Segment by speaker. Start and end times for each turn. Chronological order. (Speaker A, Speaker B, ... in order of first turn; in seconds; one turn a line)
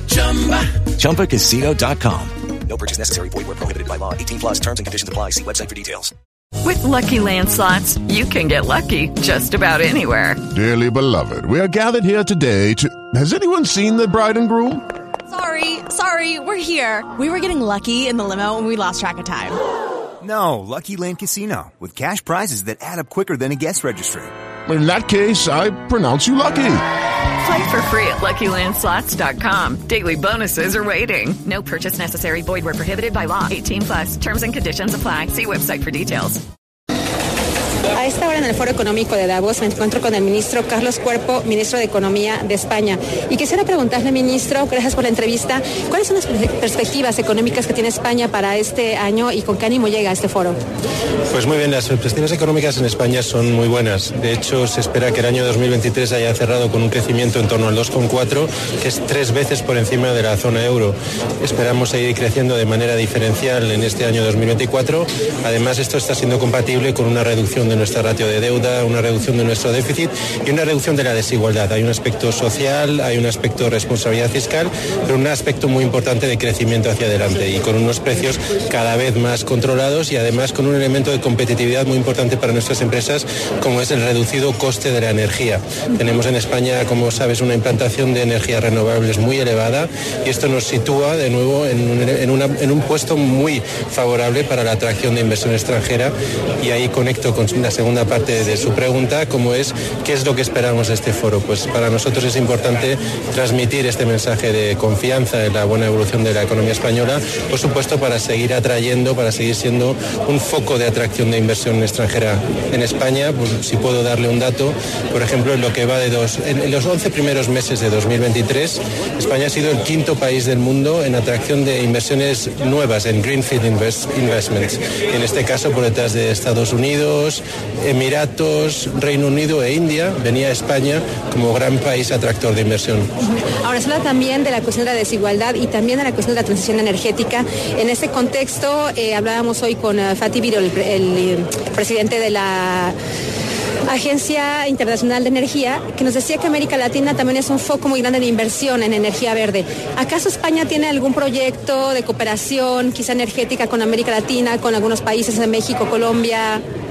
Speaker A: 0.4-6.1
Speaker B: 6.6-10.4
Speaker C: 10.5-14.8
Speaker D: 15.3-19.6
Speaker E: 20.2-24.3
Speaker C: 24.7-26.8
Speaker B: 27.4-36.4
Speaker F: 37.9-50.6
Speaker G: 51.3-133.1
Speaker F: 133.5-142.9
Speaker F: 143.9-156.6